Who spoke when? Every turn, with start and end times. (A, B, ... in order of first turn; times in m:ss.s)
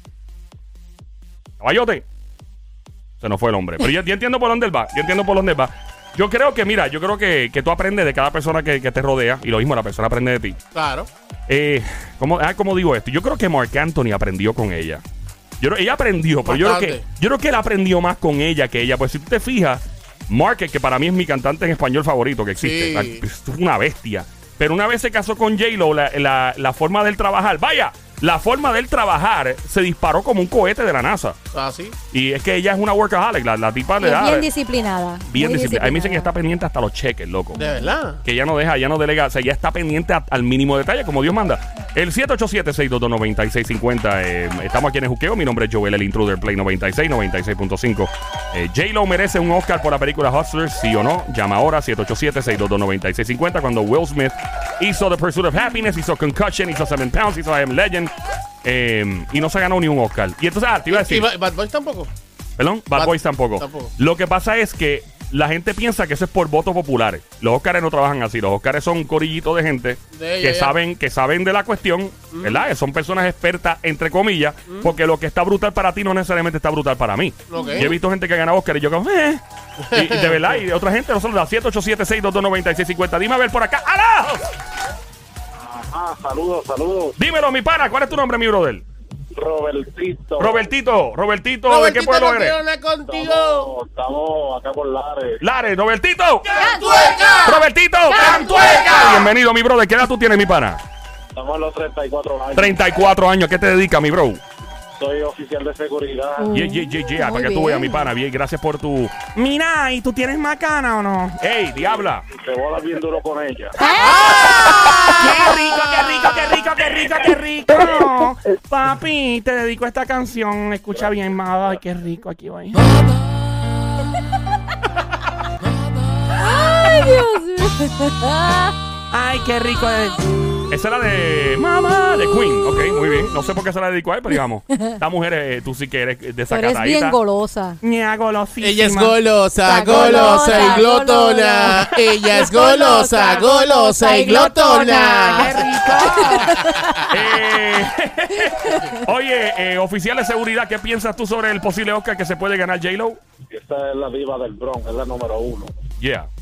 0:01.6-0:02.0 A
0:03.2-0:10.6 A
0:10.7-0:11.1 B
0:11.5-0:15.0 A
0:15.6-0:31.4 A
0:16.4-0:17.0 B
0:22.6-0:23.2 B
0:31.5-0:32.0 B
0:32.1-0:34.5 A
0:34.0-0:36.3 C
0:35.3-0:37.6 A
0:37.5-0:37.9 C
0:37.6-0:38.2 B
0:38.2-0:58.1 A
0:58.6-1:01.3 A
1:00.9-1:02.1 B
1:02.6-1:24.4 A
1:02.9-1:03.9 B
1:10.1-1:10.8 B
1:12.3-1:12.6 B
1:17.5-1:18.0 B
1:17.6-1:17.9 C
1:19.9-1:20.4 B
1:25.7-1:27.1 D
1:27.2-1:28.8 A
1:29.4-1:30.7 D
1:30.4-1:32.6 A
1:31.7-1:33.7 B
1:33.1-1:35.4 D
1:35.4-1:36.6 A
1:36.6-1:37.6 B
1:37.4-1:40.8 A
1:38.1-1:38.6 C
1:41.3-1:42.7 D
1:42.6-1:44.4 A
1:45.0-1:46.5 D
1:46.4-1:48.1 C
1:46.5-1:49.2 A
1:49.4-1:51.4 E
1:51.4-1:52.2 A
1:52.3-1:53.8 D
1:53.8-1:54.9 C
1:54.0-1:55.1 B
1:55.2-2:02.8 E
2:06.4-2:08.8 C
2:09.1-2:10.2 E
2:10.7-2:17.2 A
2:16.5-2:17.8 C
2:17.8-2:19.2 E
2:18.6-2:25.7 B
2:19.6-2:27.0 C
2:19.8-2:20.8 E
2:25.3-2:26.6 E
2:27.1-2:33.2 A
2:33.5-2:35.7 D
2:36.0-2:36.3 A